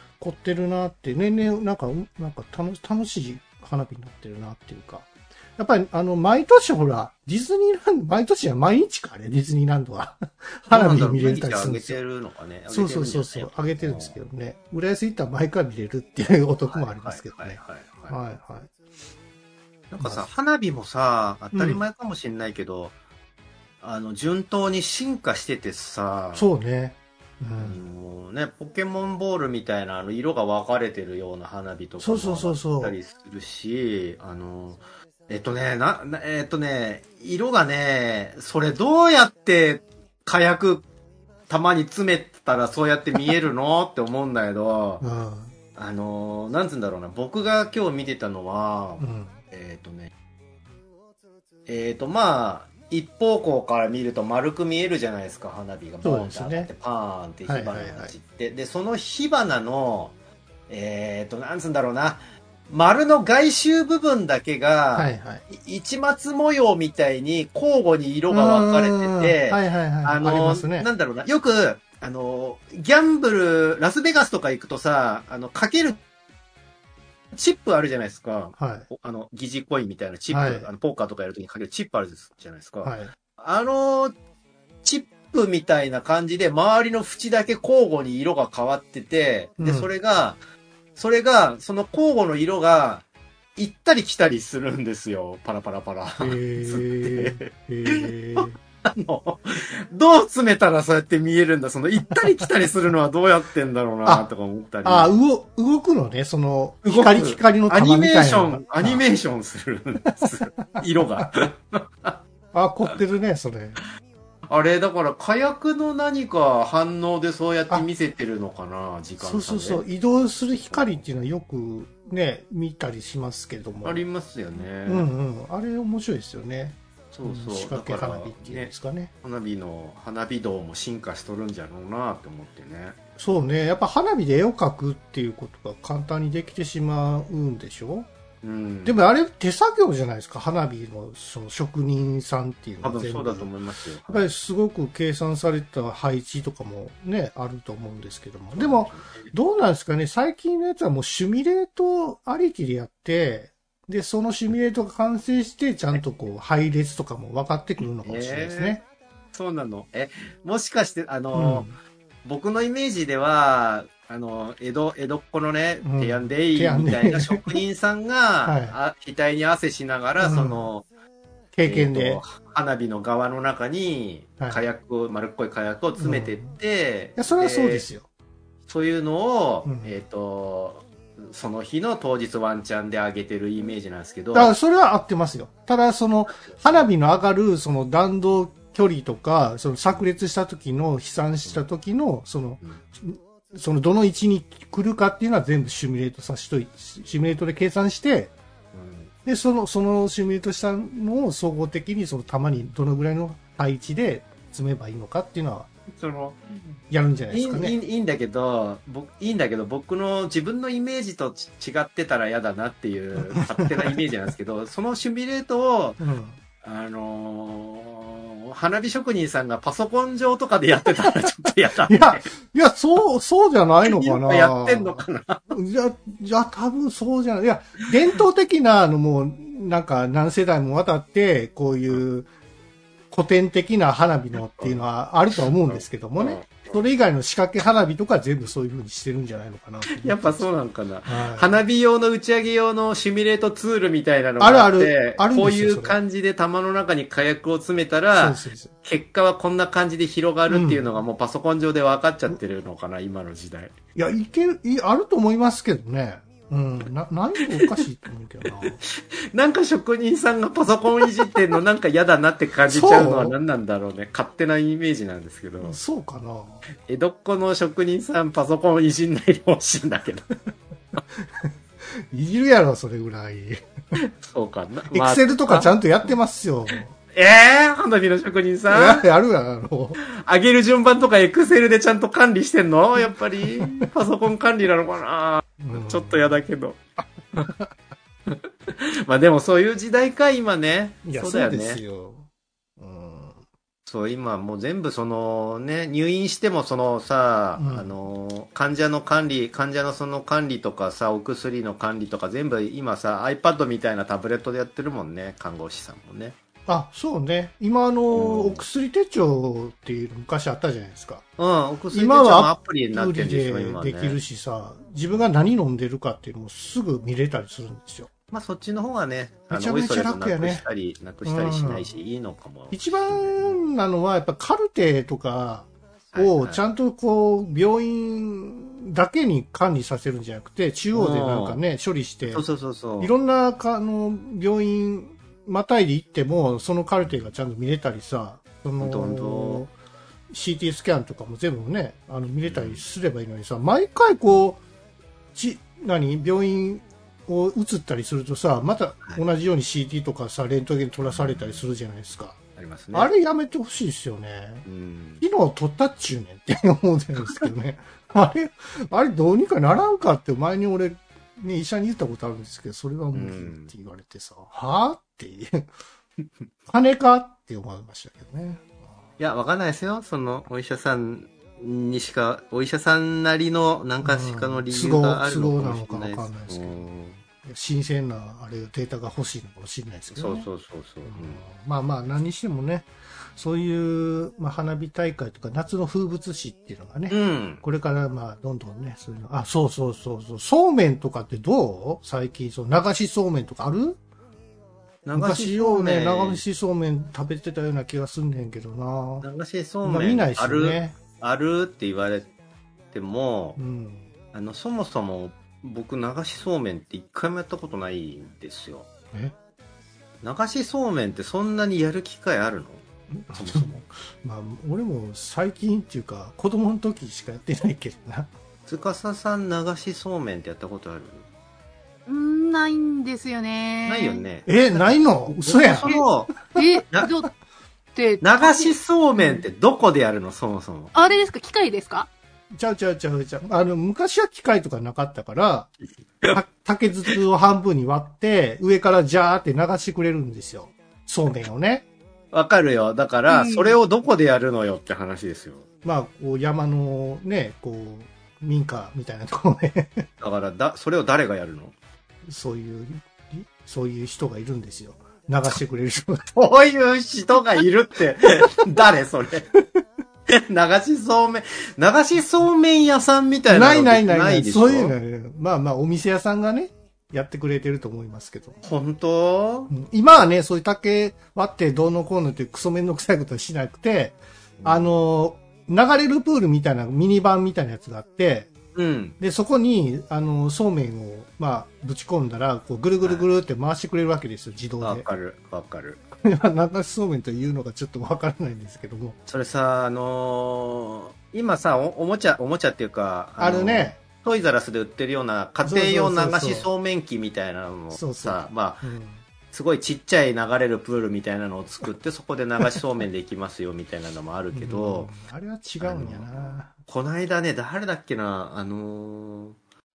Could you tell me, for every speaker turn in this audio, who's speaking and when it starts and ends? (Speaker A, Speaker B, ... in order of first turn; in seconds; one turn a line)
Speaker A: 0.2-12.0
Speaker B: 10.7-14.2
Speaker A: 12.7-18.7
Speaker B: 16.6-18.2
Speaker B: 19.9-22.9
Speaker A: 20.0-20.3
Speaker A: 21.5-21.8
Speaker B: 23.8-26.5
Speaker A: 26.3-27.8
Speaker B: 27.6-40.9
Speaker A: 32.0-33.0
Speaker B: 41.5-45.0
Speaker A: 45.0-45.5
Speaker B: 45.8-50.1
Speaker A: 49.0-49.4
Speaker B: 51.7-60.1
Speaker A: 56.0-56.7
Speaker A: 57.5-58.1
Speaker B: 60.7-76.0
Speaker A: 64.9-65.4
Speaker A: 68.3-70.9
Speaker B: 77.3-84.1
Speaker A: 78.6-78.9
Speaker A: 80.3-80.7
Speaker A: 82.8-83.1
Speaker B: 84.8-90.4
Speaker A: 89.6-89.9
Speaker B: 91.0-93.0
Speaker B: 93.5-105.2
Speaker A: 96.2-98.6
Speaker A: 102.1-102.5
Speaker A: 104.8-109.0
Speaker B: 106.8-112.2
Speaker A: 110.2-111.3
Speaker A: 112.5-113.8
Speaker B: 114.5-119.8
Speaker A: 119.2-124.0
Speaker B: 120.5-121.0
Speaker B: 123.8-125.1
Speaker A: 124.8-129.1
Speaker B: 127.1-132.9
Speaker A: 133.2-138.1
Speaker B: 138.4-139.0
Speaker A: 138.8-143.5
Speaker B: 142.8-144.3
Speaker A: 144.1-158.8
Speaker B: 148.5-149.3
Speaker B: 158.0-158.8
Speaker B: 159.3-161.7
Speaker A: 161.3-161.8
Speaker B: 162.2-170.8
Speaker A: 165.8-167.6
Speaker A: 168.4-168.8
Speaker A: 170.2-170.7
Speaker A: 171.5-172.2
Speaker B: 171.6-177.9
Speaker A: 175.9-176.5
Speaker A: 177.2-178.1
Speaker B: 178.7-184.5
Speaker A: 179.6-179.9
Speaker A: 184.3-198.3
Speaker B: 186.3-186.9
Speaker B: 198.7-199.1
Speaker A: 199.2-205.7
Speaker B: 205.9-206.8
Speaker A: 206.9-207.8
Speaker B: 207.3-216.0
Speaker A: 213.6-214.0
Speaker A: 216.0-216.4
Speaker B: 216.6-222.3
Speaker A: 221.8-232.3
Speaker B: 223.9-225.6
Speaker A: 233.1-240.4
Speaker B: 234.5-234.8
Speaker B: 235.6-236.8
Speaker B: 239.9-253.7
Speaker A: 241.1-241.6
Speaker A: 244.4-246.0
Speaker A: 248.2-248.7
Speaker A: 250.5-250.8
Speaker A: 253.9-258.8
Speaker B: 257.5-257.8
Speaker B: 259.3-265.8
Speaker A: 262.7-263.3
Speaker A: 265.6-266.6
Speaker B: 266.9-270.3
Speaker A: 271.1-273.6
Speaker B: 274.0-276.1
Speaker A: 274.9-276.9
Speaker B: 277.1-279.1
Speaker A: 278.7-280.0
Speaker B: 280.0-286.8
Speaker A: 283.5-283.9
Speaker A: 285.6-286.4
Speaker A: 287.4-287.7
Speaker B: 288.3-291.8
Speaker A: 291.0-292.3
Speaker A: 292.8-293.4
Speaker B: 293.9-306.4
Speaker A: 297.6-297.9
Speaker A: 306.7-311.2
Speaker B: 308.1-308.6
Speaker B: 311.4-314.2
Speaker A: 311.9-318.1
Speaker B: 318.3-323.6
Speaker A: 319.5-320.6
Speaker A: 321.2-321.9
Speaker A: 322.7-332.4
Speaker B: 326.1-326.6
Speaker B: 330.9-331.6
Speaker B: 332.3-333.1
Speaker A: 333.0-339.7
Speaker B: 338.8-339.6
Speaker A: 340.3-344.6
Speaker B: 342.4-342.8
Speaker A: 345.3-352.4
Speaker B: 351.1-351.6
Speaker B: 352.6-353.1
Speaker A: 352.9-354.6
Speaker B: 354.6-355.2
Speaker A: 355.2-365.6
Speaker B: 363.1-363.7
Speaker A: 366.7-369.0
Speaker B: 369.2-377.2
Speaker A: 374.0-376.9
Speaker A: 377.4-380.5
Speaker B: 380.1-381.4
Speaker A: 381.1-394.0
Speaker B: 387.1-387.6
Speaker B: 395.0-396.4
Speaker A: 395.1-399.2
Speaker B: 399.2-402.3
Speaker A: 399.8-400.9
Speaker B: 402.9-403.6
Speaker A: 403.6-404.1
Speaker B: 404.3-408.9
Speaker B: 410.2-413.8
Speaker A: 413.1-418.3
Speaker B: 418.7-421.2
Speaker C: 422.1-424.2
Speaker B: 423.9-426.3
Speaker A: 424.4-425.9
Speaker C: 426.5-427.3
Speaker C: 427.9-429.4
Speaker B: 428.2-430.9
Speaker C: 430.9-432.1
Speaker A: 432.5-435.7
Speaker A: 436.3-441.9
Speaker B: 442.3-445.6
Speaker C: 443.3-443.7
Speaker A: 445.8-450.1
Speaker B: 450.2-451.7
Speaker A: 452.2-456.3
Speaker B: 456.3-459.5
Speaker B: 460.3-464.9
Speaker A: 463.5-468.6
Speaker B: 468.6-469.7
Speaker A: 469.7-478.5
Speaker B: 474.6-474.9
Speaker B: 478.7-479.2
Speaker A: 479.2-485.0
Speaker B: 483.0-483.3
Speaker B: 484.8-486.0
Speaker A: 486.2-489.2
Speaker B: 489.3-498.9
Speaker A: 493.4-494.0
Speaker A: 495.6-496.7
Speaker A: 497.9-499.2
Speaker B: 499.5-505.1
Speaker A: 504.5-506.7
Speaker B: 505.8-509.6